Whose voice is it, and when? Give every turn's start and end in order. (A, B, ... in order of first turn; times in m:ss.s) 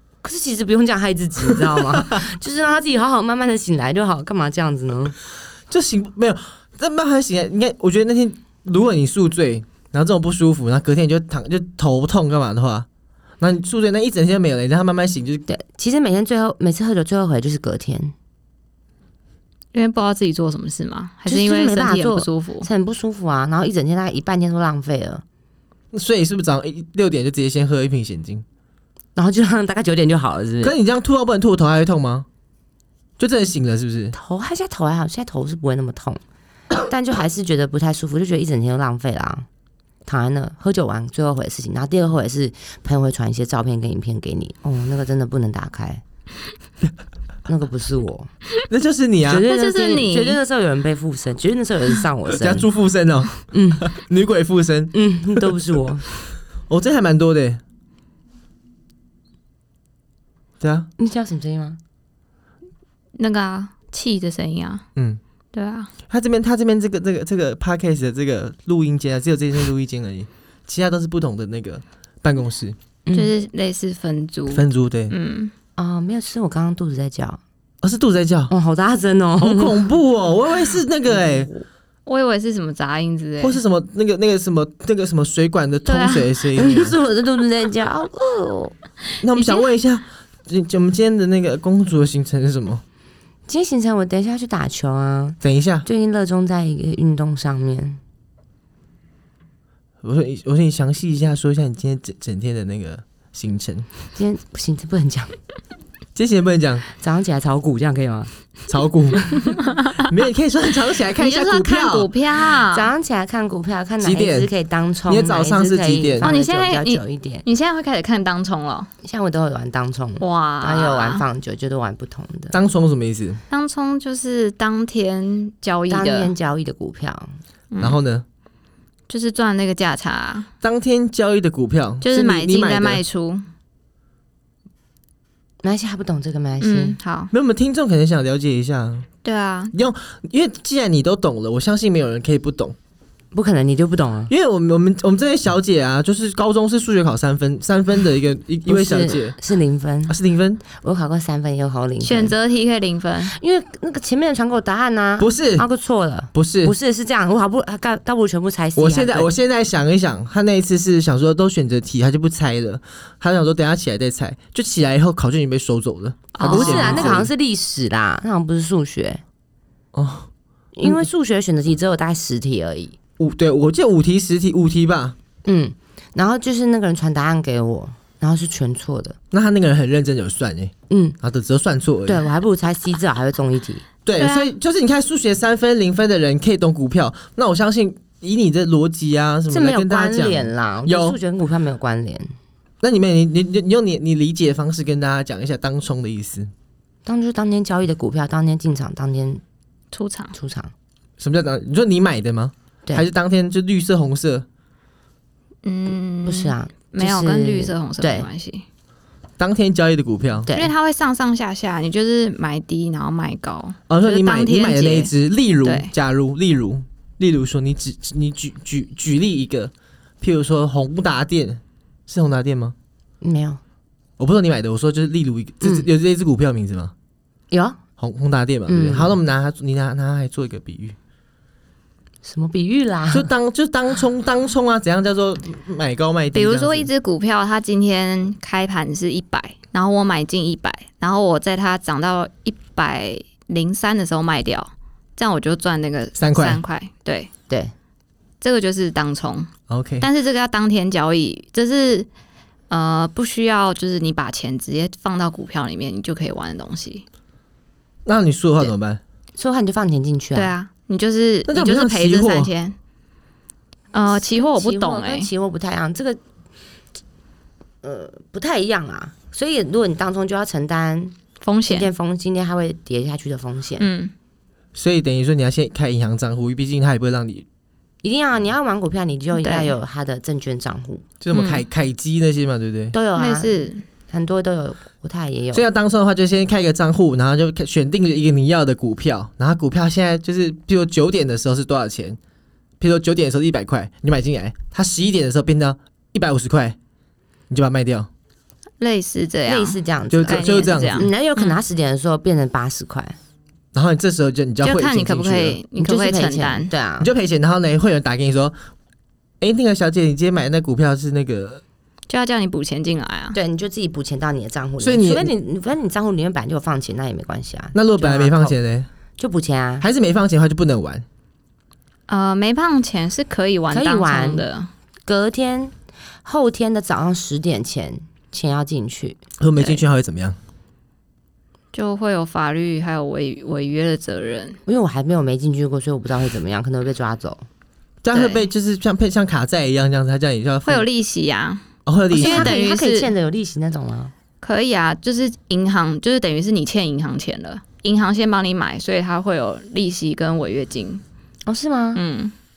0:00.2-0:05.1 A
0:01.8-0:02.1 B
0:05.7-0:12.9 B
0:13.4-0:15.4 B
0:15.5-0:18.1 A
0:19.7-0:22.7 C
0:21.3-0:25.2 A
0:25.9-0:28.4 B
0:29.2-0:30.7 A
0:30.6-0:32.3 B
0:33.2-0:34.1 B
0:34.1-0:36.2 A
0:36.8-0:39.5 A
0:40.0-0:46.0 A
0:47.4-0:48.3 A
0:48.7-0:49.4 B
0:49.3-0:52.7 A
0:49.4-0:50.4 C
0:52.4-0:55.4 B
0:53.5-0:53.9 A
0:54.9-0:56.0 A
0:56.7-0:57.6 B
1:00.6-1:00.9 B
1:01.0-1:01.8 A
1:03.2-1:04.8 C
1:05.5-1:05.9 C
1:06.1-1:12.8 B
1:13.0-1:13.3 A
1:13.1-1:15.5 C
1:14.5-1:15.1 B
1:15.8-1:17.4 A
1:17.8-1:18.5 B
1:18.5-1:19.8 A
1:19.4-1:21.5 B
1:21.1-1:21.6 A
1:22.0-1:23.6 C
1:23.4-1:27.0 B
1:26.5-1:28.7 A
1:29.2-1:32.8 B
1:33.5-1:38.0 A
1:35.4-1:35.8 B
1:40.0-1:43.8 B
1:44.2-1:45.3 A
1:46.1-1:46.8 B
1:46.9-1:48.3 A
1:48.7-1:52.1 B
1:51.1-1:52.9 C
1:52.7-1:57.4 A
1:54.0-1:54.5 B
1:55.1-1:56.3 B
1:56.2-1:58.9 C
1:59.0-2:02.5 A
2:00.2-2:01.2 C
2:02.5-2:03.4 B
2:03.5-2:06.3 C
2:05.9-2:07.4 A
2:07.7-2:08.0 C
2:07.8-2:08.2 B
2:09.1-2:10.5 C
2:10.6-2:13.0 B
2:12.0-2:13.4 C
2:15.6-2:17.0 A
2:16.6-2:17.3 C
2:17.3-2:19.1 B
2:19.2-2:19.7 C
2:19.7-2:22.8 B
2:23.3-2:24.3 A
2:24.3-2:29.4 B
2:28.7-2:32.3 A
2:30.1-2:30.6 B
2:32.0-2:33.3 C
2:33.3-2:39.3 A
2:35.2-2:35.6 B
2:36.3-2:36.7 B
2:38.8-2:47.3 B
2:46.3-2:47.2 C
2:46.4-2:49.2 A
2:49.9-2:50.3 B
2:50.8-2:53.0 A
2:53.2-2:55.1 B
2:55.4-2:59.2 A
2:59.3-3:02.2 B
3:00.9-3:01.2 A
3:02.0-3:03.8 A
3:04.0-3:11.2 B
3:04.2-3:04.5 C
3:09.5-3:12.3 A
3:12.8-3:16.5 B
3:17.0-3:19.4 A
3:19.9-3:20.3 C
3:20.3-3:20.7 A
3:21.2-3:24.4 B
3:25.6-3:28.6 C
3:26.2-3:28.3 A
3:29.4-3:30.5 B
3:30.5-3:30.7 A
3:30.5-3:35.1 C
3:33.9-3:42.7 B
3:35.6-3:35.9 C
3:43.2-3:43.6 A
3:44.2-3:46.9 B
3:47.5-3:47.8 A
3:48.0-3:51.0 B
3:48.7-3:49.1 A
3:52.2-3:53.3 A
3:53.1-3:56.9 B
3:56.3-4:07.3 C
4:06.2-4:06.6 B
4:08.4-4:09.5 C
4:09.7-4:10.1 B
4:10.0-4:12.1 C
4:12.7-4:17.0 C
4:18.0-4:19.0 B
4:19.4-4:20.5 A
4:20.3-4:22.7 C
4:21.5-4:22.5 B
4:23.9-4:25.3 C
4:24.1-4:26.2 A
4:27.8-4:31.2 A
4:31.4-4:31.9 C
4:31.7-4:33.9 A
4:33.8-4:34.1 C
4:34.7-4:37.4 B
4:38.0-4:41.0 A
4:39.4-4:39.7 C
4:41.2-4:42.9 B
4:41.3-4:41.6 C
4:42.9-4:43.6 A
4:43.1-4:43.8 C
4:44.1-4:45.6 A
4:45.5-4:52.2 B
4:52.8-4:56.8 B
4:57.5-4:58.1 B
4:58.8-5:01.6 C
4:59.5-5:03.2 A
5:00.1-5:01.1 B
5:03.7-5:05.6 B
5:04.6-5:06.7 C
5:05.8-5:07.1 A
5:07.0-5:08.6 B
5:09.4-5:11.6 B
5:12.1-5:13.4 C
5:13.3-5:18.5 A
5:14.8-5:15.3 B
5:17.7-5:18.9 B
5:19.2-5:19.9 A
5:19.8-5:21.0 B
5:22.1-5:24.7 C
5:23.7-5:24.5 A
5:25.0-5:29.2 A
5:29.4-5:30.4 B
5:31.7-5:34.6 C
5:34.6-5:37.4 A
5:38.0-5:40.9 B
5:38.1-5:38.5 C
5:40.6-5:43.1 C
5:41.8-5:42.5 B
5:42.2-5:44.1 A
5:44.4-5:51.0 C
5:51.4-5:52.0 A
5:51.9-5:52.3 C